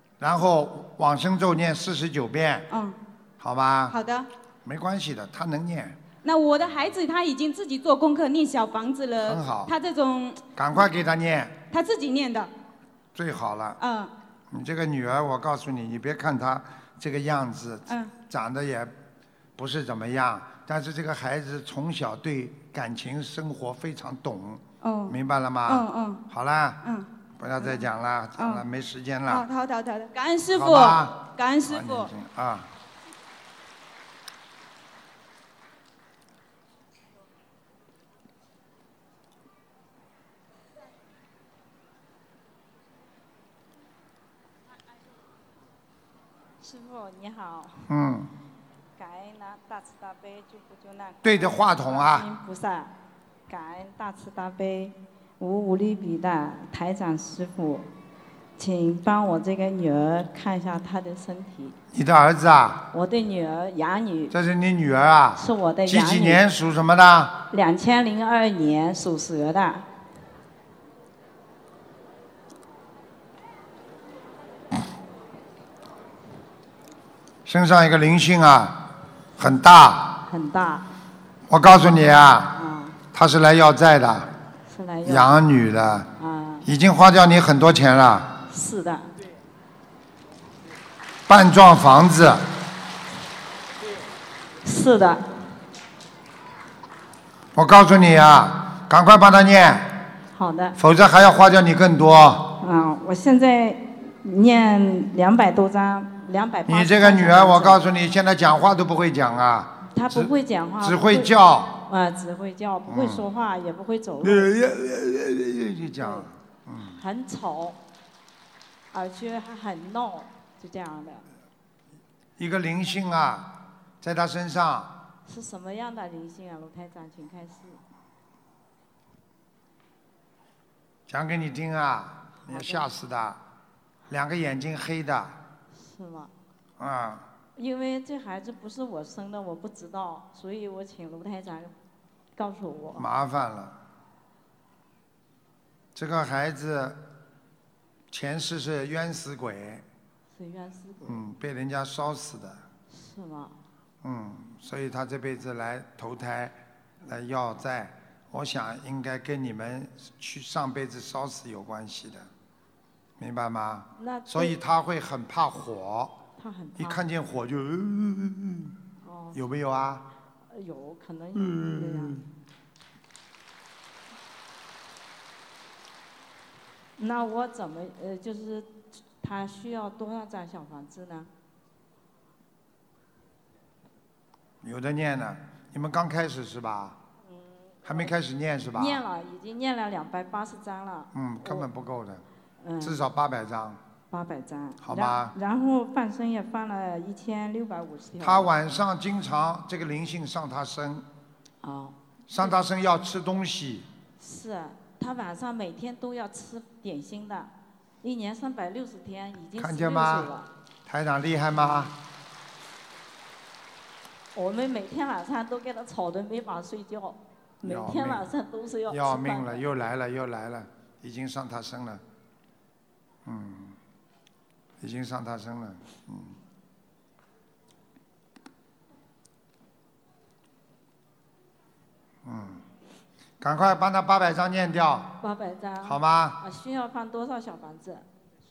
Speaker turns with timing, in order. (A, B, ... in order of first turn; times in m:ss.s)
0:00.2-0:02.7 A
0:02.7-0:03.0 B
0:03.4-0:04.0 A
0:03.9-0:04.3 B
0:04.6-0:06.0 A
0:06.2-0:10.4 B
0:09.2-0:09.7 A
0:10.6-0:11.6 A
0:11.7-0:12.5 B
0:13.2-0:13.8 A
0:13.8-0:14.1 B
0:14.5-0:18.9 A
0:17.9-0:18.1 B
0:19.6-0:26.8 A
0:24.8-0:26.2 B
0:26.8-0:27.1 B
0:27.4-0:29.5 A
0:28.4-0:28.6 B
0:29.3-0:32.1 B
0:30.6-0:32.7 A
0:46.6-0:47.9 C
0:47.9-0:48.3 A
0:49.0-0:52.9 C
0:51.2-0:52.3 A
0:53.5-0:57.9 C
0:58.6-1:01.8 C
1:01.9-1:02.8 A
1:02.9-1:04.3 C
1:04.3-1:07.4 A
1:05.4-1:06.4 C
1:07.5-1:09.8 C
1:17.5-1:20.2 A
1:20.3-1:20.9 C
1:21.5-1:22.6 A
1:22.5-1:23.0 C
1:23.1-1:24.3 A
1:24.7-1:25.3 C
1:25.0-1:26.1 A
1:26.2-1:26.7 C
1:26.6-1:28.4 A
1:28.5-1:29.1 C
1:31.3-1:32.5 A
1:34.6-1:35.3 C
1:37.6-1:40.0 A
1:40.3-1:40.8 C
1:40.8-1:42.6 A
1:42.6-1:47.8 C
1:46.7-1:51.8 A
1:49.9-1:54.5 C
1:52.9-1:53.2 A
1:54.2-1:57.0 A
1:56.0-1:56.3 C
1:57.0-1:57.8 C
1:58.9-2:01.2 C
2:02.4-2:04.9 A
2:05.3-2:07.8 C
2:11.1-2:13.4 A
2:12.5-2:12.9 C
2:14.1-2:15.4 A
2:15.7-2:16.3 C
2:16.8-2:17.3 A
2:17.6-2:21.7 C
2:22.4-2:23.0 C
2:23.0-2:23.8 A
2:26.0-2:27.0 A
2:28.1-2:29.8 A
2:30.3-2:31.2 C
2:31.0-2:32.6 A
2:32.9-2:33.6 C
2:34.0-2:42.3 A
2:43.2-2:46.2 A
2:44.0-2:44.6 C
2:46.4-2:47.0 C
2:46.8-2:48.8 A
2:49.0-2:49.4 C
2:49.3-2:50.0 A
2:50.5-2:52.2 C
2:51.4-2:52.2 A
2:57.0-3:01.3 C
3:04.6-3:07.0 A
3:07.3-3:08.1 C
3:07.8-3:09.0 A
3:08.8-3:11.7 C
3:11.1-3:12.2 A
3:12.6-3:13.0 C
3:12.8-3:13.8 A
3:14.1-3:18.5 C
3:14.8-3:15.3 A
3:18.2-3:21.1 A
3:21.6-3:22.0 C
3:22.3-3:23.9 A
3:24.2-3:30.5 C
3:29.6-3:30.3 A
3:30.9-3:32.0 A
3:31.6-3:31.9 C
3:34.4-3:39.6 C
3:37.6-3:38.3 A
3:38.9-3:42.0 A
3:43.2-3:43.8 A
3:44.8-3:46.4 A
3:52.2-3:52.6 A
3:53.4-3:55.2 A
3:55.2-3:58.1 C
3:55.8-3:56.4 A